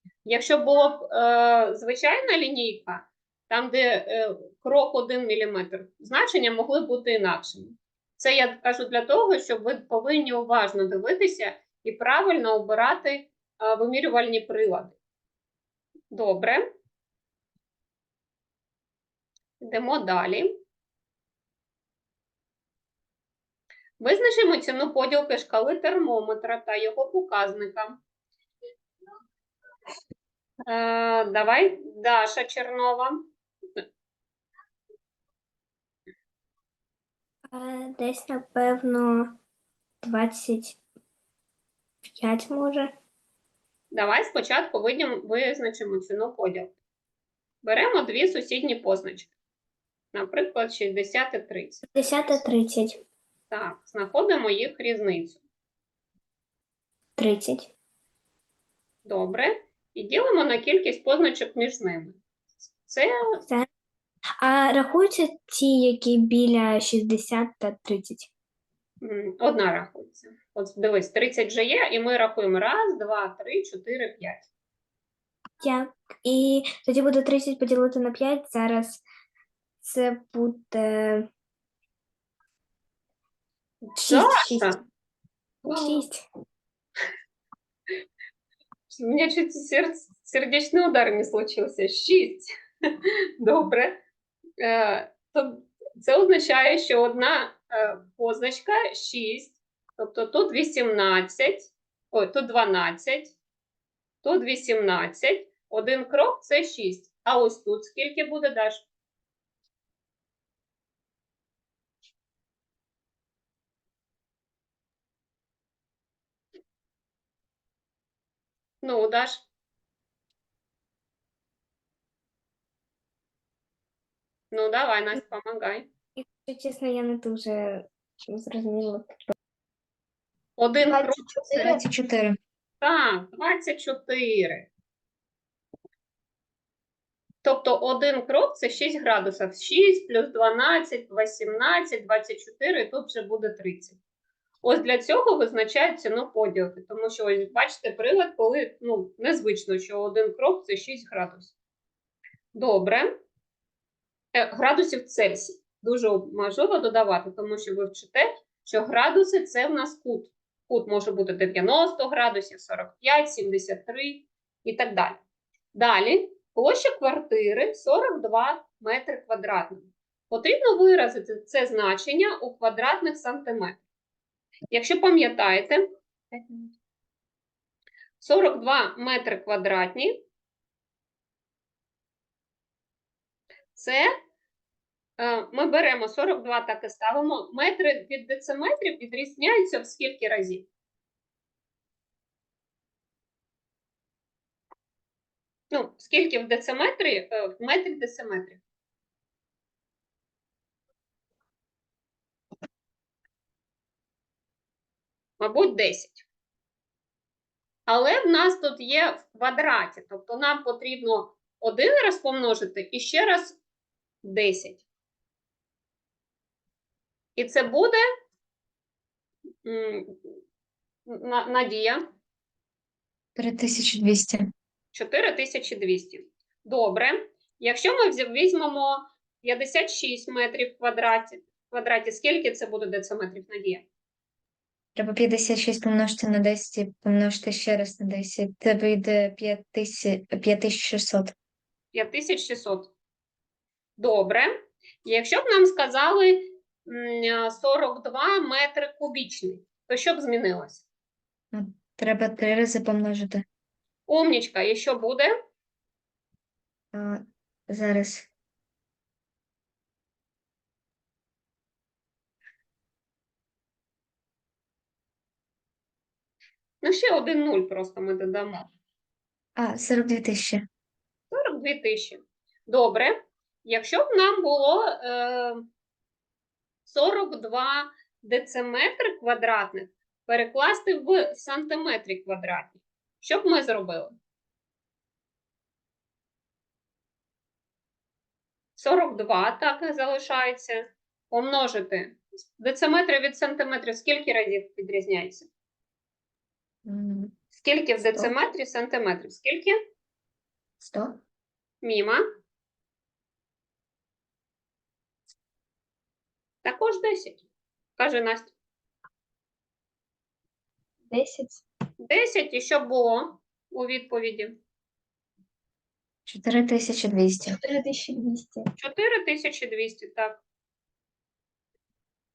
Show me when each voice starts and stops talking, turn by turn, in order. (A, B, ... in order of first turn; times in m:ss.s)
0:00.2-0:15.0 A
0:16.1-0:16.6 A
0:19.6-0:20.6 A
0:24.0-0:28.0 A
0:30.7-0:33.3 A
0:37.5-0:39.4 B
0:40.0-0:40.8 B
0:42.0-0:42.9 B
0:43.9-0:46.7 A
0:47.6-0:49.3 A
0:50.1-0:52.4 A
0:51.9-0:53.0 B
0:53.5-0:55.4 A
0:57.2-0:57.7 B
0:59.0-1:03.2 A
1:04.4-1:08.3 B
1:09.0-1:14.5 A
1:15.6-1:19.0 B
1:19.8-1:21.3 B
1:24.0-1:24.8 B
1:24.1-1:24.8 A
1:25.7-1:26.0 A
1:25.7-1:26.2 B
1:28.9-1:34.0 A
1:34.6-1:43.3 A
1:44.2-1:48.8 A
1:58.8-1:59.4 A
2:04.5-2:05.9 A
2:06.2-2:09.3 B
2:10.6-2:11.8 A
2:10.9-2:11.8 C
2:11.6-2:12.4 D
2:12.8-2:14.7 A
2:17.4-2:24.0 A
2:24.6-2:31.5 A
2:32.5-2:33.1 A
2:34.3-2:45.2 A
2:45.7-2:53.8 A
2:54.7-2:55.8 A
2:58.2-3:00.2 A
3:03.7-3:04.1 A
3:05.2-3:10.7 A
3:15.7-3:18.6 A
3:25.4-3:26.2 A
3:27.9-3:33.6 A
3:34.2-3:34.8 A
3:37.4-3:38.0 A
3:39.6-3:40.4 A
3:41.1-3:42.0 A
3:43.4-3:44.5 D
3:44.9-3:53.8 A
3:55.0-4:01.3 D
4:01.9-4:02.9 A
4:04.0-4:04.5 A
4:05.0-4:10.8 A
4:11.5-4:13.4 D
4:14.1-4:15.3 A
4:16.9-4:18.3 D
4:26.8-4:28.7 A
4:29.6-4:30.6 D
4:31.3-4:35.6 A
4:36.8-4:44.1 A
4:48.8-4:55.5 A
4:56.8-4:57.3 D
4:57.5-4:59.8 A
4:58.0-4:58.3 D
5:00.8-5:01.2 D
5:01.8-5:02.2 A
5:06.6-5:07.4 A
5:08.0-5:08.5 A
5:11.1-5:11.6 C
5:12.0-5:14.6 A
5:16.3-5:17.6 D
5:17.4-5:18.6 C
5:18.8-5:20.4 A